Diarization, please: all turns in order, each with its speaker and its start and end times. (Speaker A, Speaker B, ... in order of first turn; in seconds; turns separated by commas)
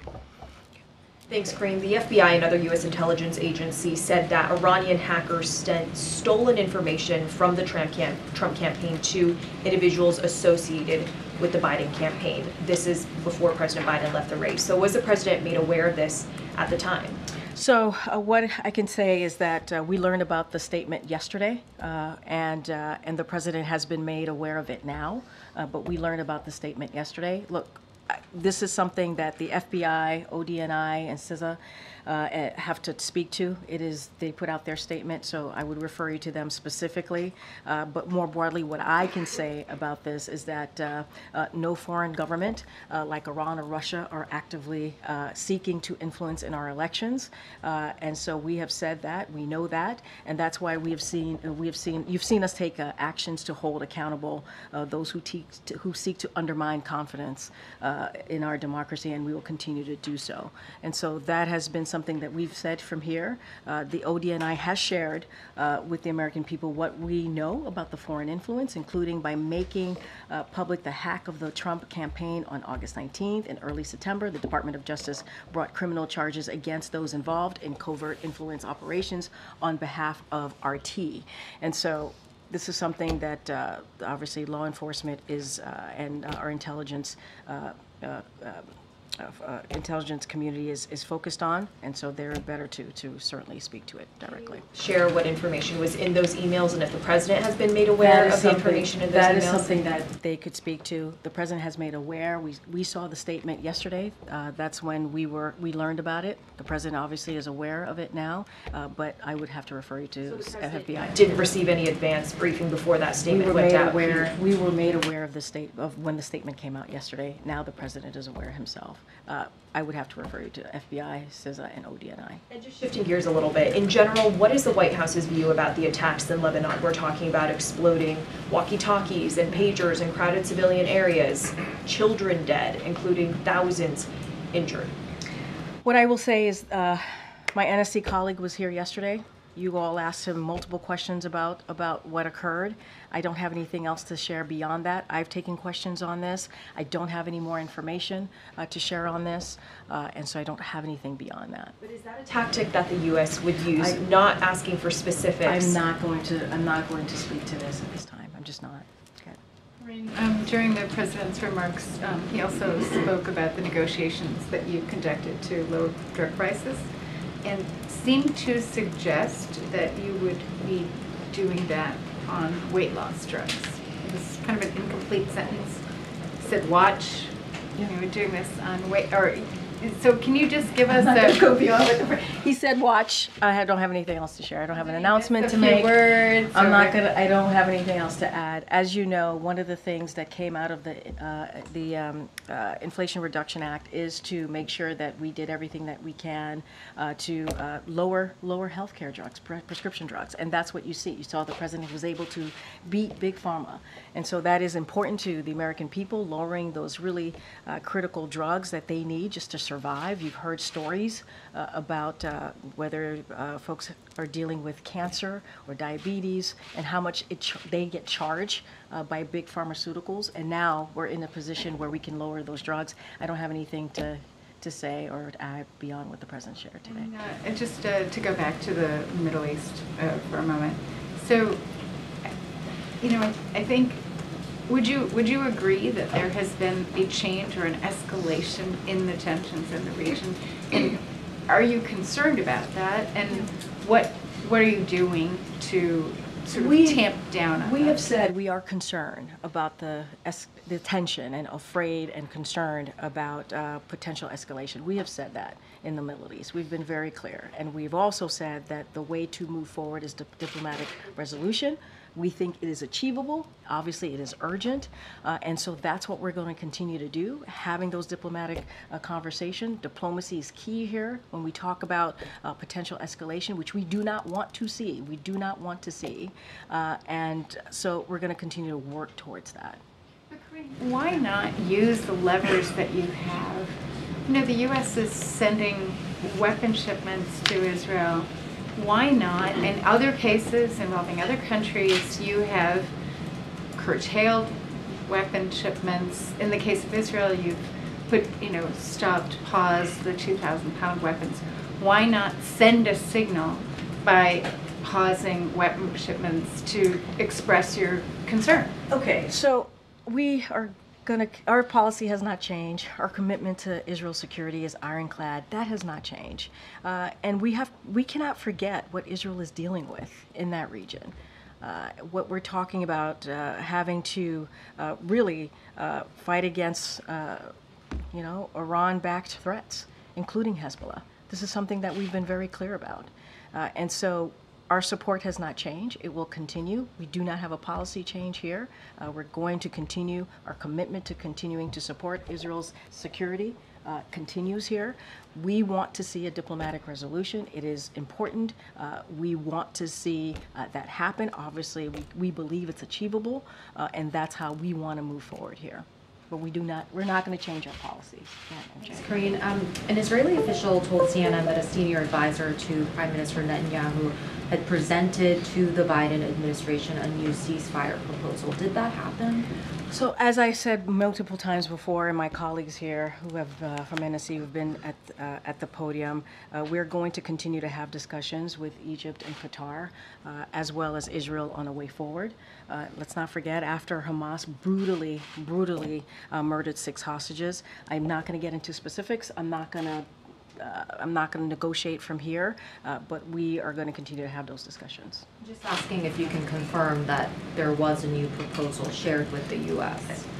Speaker A: 1.3-17.2, Speaker B: 17.5-88.7, Speaker B: 89.2-94.6, Speaker A: 94.7-99.9, Speaker B: 98.0-111.2, Speaker A: 111.0-114.3, Speaker B: 113.3-122.4, Speaker A: 122.5-134.9, Speaker B: 135.8-151.8, Speaker A: 151.8-155.8, Speaker B: 153.8-154.0, Speaker B: 155.4-159.4, Speaker C: 159.8-166.9, Speaker C: 167.4-175.8, Speaker C: 176.4-181.4, Speaker B: 180.9-227.1, Speaker C: 184.8-186.9, Speaker C: 226.9-231.6, Speaker C: 233.0-234.0, Speaker C: 234.7-248.0, Speaker B: 246.5-247.0, Speaker B: 247.6-279.8, Speaker C: 280.3-283.7, Speaker C: 284.2-292.9, Speaker C: 293.8-308.7, Speaker B: 308.9-327.5, Speaker B: 328.1-359.1, Speaker D: 358.9-369.4, Speaker B: 369.9-395.2, Speaker D: 395.4-400.2